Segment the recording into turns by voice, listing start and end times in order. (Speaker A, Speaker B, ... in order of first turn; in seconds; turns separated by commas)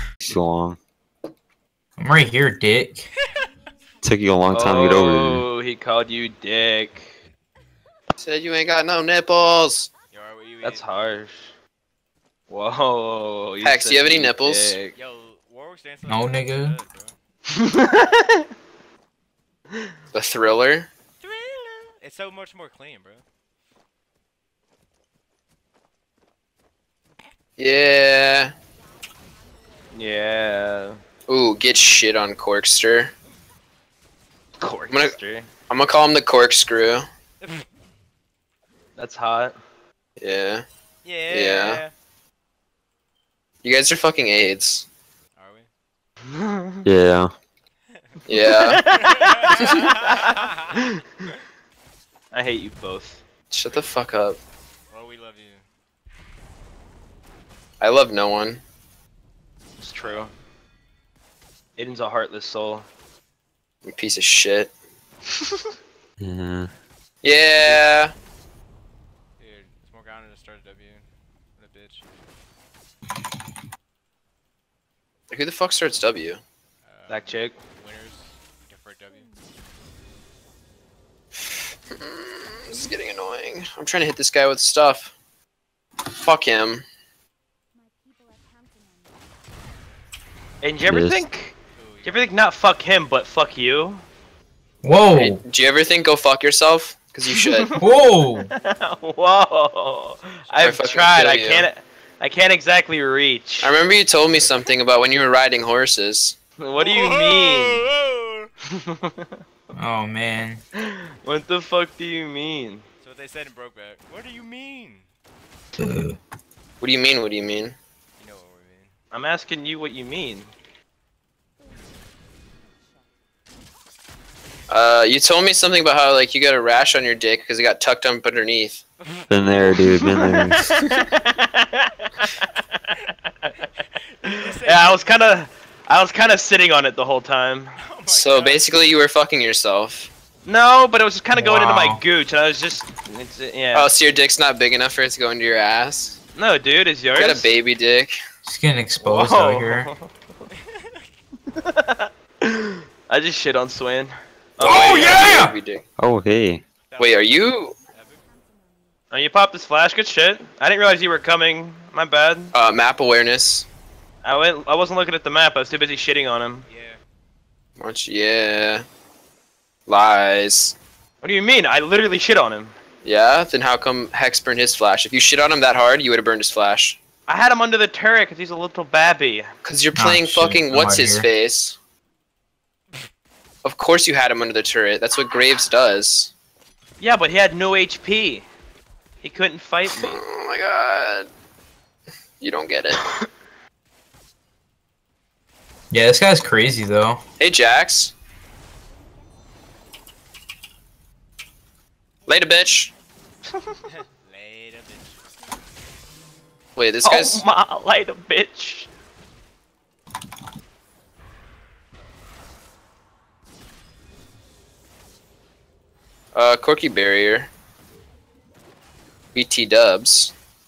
Speaker A: 0.2-0.8, Speaker B: 2.0-3.1, Speaker A: 4.0-5.4, Speaker C: 4.5-7.2, Speaker D: 8.2-9.9, Speaker E: 10.1-10.8, Speaker C: 10.6-11.5, Speaker C: 12.5-14.9, Speaker D: 13.6-14.7, Speaker E: 14.9-17.1, Speaker B: 16.1-16.8, Speaker C: 17.5-18.5, Speaker D: 20.1-20.9, Speaker E: 21.2-23.2, Speaker D: 27.6-28.5, Speaker C: 29.9-31.0, Speaker D: 31.3-33.1, Speaker C: 34.6-35.5, Speaker D: 35.7-37.1, Speaker C: 39.0-39.6, Speaker D: 40.2-40.6, Speaker E: 41.0-41.9, Speaker D: 41.3-41.8, Speaker D: 43.6-44.9, Speaker E: 45.4-45.7, Speaker C: 46.3-46.9, Speaker A: 46.8-47.3, Speaker E: 47.9-48.1, Speaker D: 48.3-48.8, Speaker C: 48.3-50.9, Speaker E: 48.9-51.4, Speaker C: 52.3-53.2, Speaker D: 53.5-54.4, Speaker E: 53.7-54.0, Speaker E: 54.9-55.6, Speaker D: 57.8-58.6, Speaker C: 59.8-60.3, Speaker E: 60.0-60.3, Speaker C: 61.8-62.9, Speaker D: 63.9-64.7, Speaker A: 66.2-66.7, Speaker D: 67.2-68.1, Speaker C: 67.6-67.8, Speaker E: 69.4-71.0, Speaker E: 71.5-72.0, Speaker D: 75.3-76.4, Speaker E: 76.8-79.3, Speaker C: 77.1-77.5, Speaker D: 82.0-85.1, Speaker D: 86.2-86.8, Speaker C: 90.6-94.0, Speaker A: 90.9-91.2, Speaker E: 91.7-92.3, Speaker B: 94.8-95.4, Speaker D: 95.1-97.8, Speaker C: 97.4-97.8, Speaker B: 97.8-98.5, Speaker C: 98.5-103.7, Speaker E: 100.4-101.4, Speaker D: 100.6-101.7, Speaker D: 103.6-106.3, Speaker C: 106.6-107.8, Speaker E: 106.8-108.5, Speaker C: 108.7-109.4, Speaker B: 109.7-110.6, Speaker C: 110.8-112.8, Speaker E: 113.0-115.1, Speaker B: 115.8-116.2, Speaker D: 116.8-117.8, Speaker E: 118.2-118.9, Speaker C: 119.1-120.5, Speaker D: 124.7-128.8, Speaker E: 129.0-129.3, Speaker A: 129.3-130.6, Speaker C: 129.9-132.5, Speaker E: 133.7-135.3, Speaker C: 134.3-137.7, Speaker E: 137.8-138.9, Speaker D: 138.1-140.1, Speaker C: 140.4-143.9, Speaker B: 141.3-142.0, Speaker D: 143.7-146.2, Speaker C: 146.3-147.5, Speaker D: 147.2-148.2, Speaker B: 148.4-149.9, Speaker C: 149.0-150.1, Speaker E: 150.5-151.1, Speaker C: 151.5-155.4, Speaker D: 154.6-155.8, Speaker B: 154.6-155.6, Speaker A: 156.0-156.6, Speaker E: 156.9-158.2, Speaker D: 157.0-157.7, Speaker C: 159.1-162.5, Speaker D: 162.5-163.7, Speaker C: 164.2-166.7, Speaker E: 166.6-167.0, Speaker D: 167.8-168.8, Speaker D: 169.9-170.8, Speaker C: 171.2-172.8, Speaker D: 173.0-177.0, Speaker C: 177.3-179.5, Speaker D: 179.6-181.8, Speaker B: 180.0-181.3, Speaker D: 183.6-186.3, Speaker C: 187.0-188.4, Speaker C: 189.2-190.2, Speaker D: 189.9-191.3, Speaker D: 192.4-193.0, Speaker B: 195.9-197.2, Speaker D: 197.4-198.1, Speaker D: 202.3-202.9, Speaker E: 203.8-205.2, Speaker D: 206.8-207.4, Speaker C: 207.0-208.9, Speaker D: 216.3-217.5, Speaker D: 219.3-220.3